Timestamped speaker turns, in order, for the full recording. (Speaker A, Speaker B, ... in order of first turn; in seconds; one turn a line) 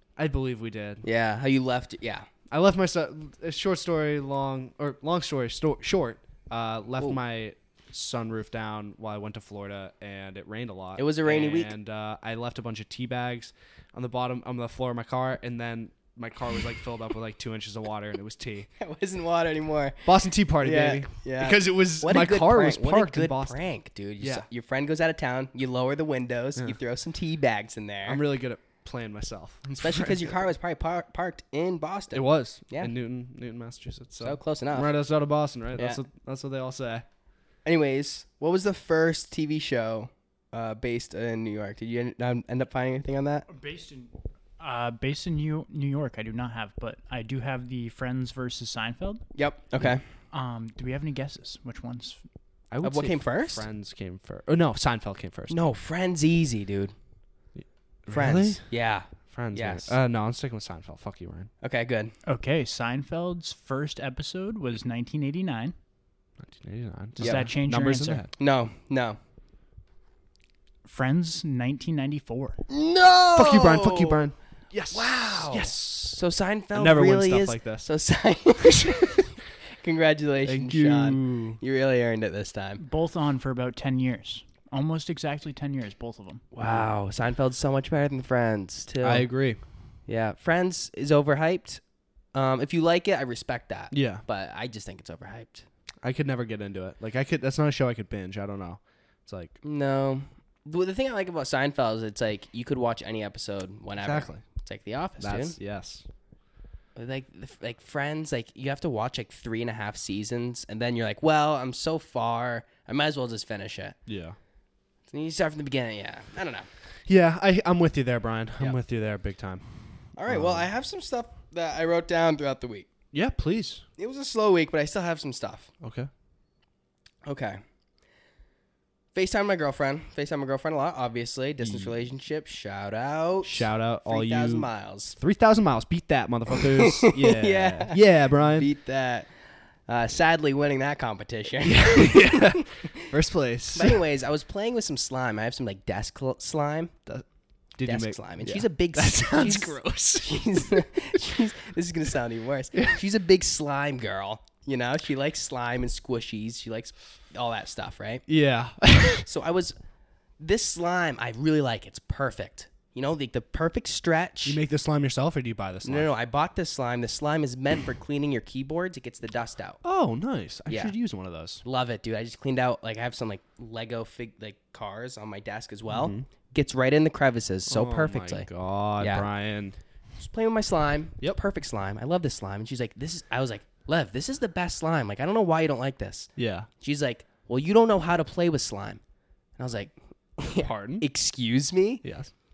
Speaker A: 0.2-1.1
Speaker B: 1.0-2.3
Speaker A: 2.5-18.7
Speaker B: 11.0-11.7
Speaker B: 18.8-20.1
Speaker A: 20.1-23.6
Speaker B: 20.6-28.2
Speaker A: 24.2-24.4
Speaker A: 28.1-30.4
Speaker B: 29.8-32.9
Speaker A: 32.1-37.0
Speaker B: 34.2-34.9
Speaker B: 35.8-36.0
Speaker B: 37.6-43.5
Speaker C: 43.5-49.2
Speaker B: 49.4-50.0
Speaker C: 50.3-52.2
Speaker A: 52.7-55.6
Speaker B: 52.8-53.6
Speaker B: 55.5-56.9
Speaker A: 57.6-58.6
Speaker B: 58.1-60.0
Speaker A: 59.3-61.5
Speaker B: 61.6-62.1
Speaker C: 62.3-65.8
Speaker A: 66.4-68.3
Speaker C: 67.2-68.2
Speaker B: 67.2-67.5
Speaker B: 68.4-69.2
Speaker C: 70.8-72.6
Speaker B: 72.7-74.2
Speaker A: 73.3-76.2
Speaker B: 74.9-82.8
Speaker A: 76.7-77.9
Speaker A: 78.8-79.2
Speaker A: 80.5-81.6
Speaker C: 82.8-86.4
Speaker B: 86.5-89.3
Speaker A: 86.6-86.9
Speaker A: 89.0-89.6
Speaker B: 90.1-91.8
Speaker B: 92.3-95.7
Speaker A: 93.9-94.2
Speaker A: 96.0-99.6
Speaker B: 99.6-105.6
Speaker A: 104.0-104.4
Speaker A: 105.2-106.1
Speaker B: 107.0-114.0
Speaker A: 114.1-114.4
Speaker B: 115.1-116.7
Speaker A: 117.1-120.7
Speaker B: 120.2-122.9
Speaker A: 123.1-123.8
Speaker B: 124.0-125.7
Speaker A: 125.8-126.1
Speaker B: 127.2-127.6
Speaker B: 129.1-135.2
Speaker A: 131.6-132.0
Speaker A: 133.4-138.7
Speaker B: 136.5-139.3
Speaker B: 139.9-143.1
Speaker A: 141.6-144.0
Speaker B: 143.7-146.9
Speaker A: 147.1-150.6
Speaker B: 147.8-158.2
Speaker A: 158.3-159.3
Speaker B: 159.2-159.8
Speaker B: 160.4-164.6
Speaker A: 164.4-166.1
Speaker B: 165.8-169.8
Speaker A: 169.8-171.6
Speaker B: 170.7-170.9
Speaker B: 171.6-178.5
Speaker A: 175.9-176.3
Speaker A: 177.7-179.8
Speaker B: 179.0-179.3
Speaker B: 180.2-189.0
Speaker A: 186.4-186.7
Speaker B: 189.6-192.0
Speaker A: 190.6-191.1
Speaker A: 192.0-192.3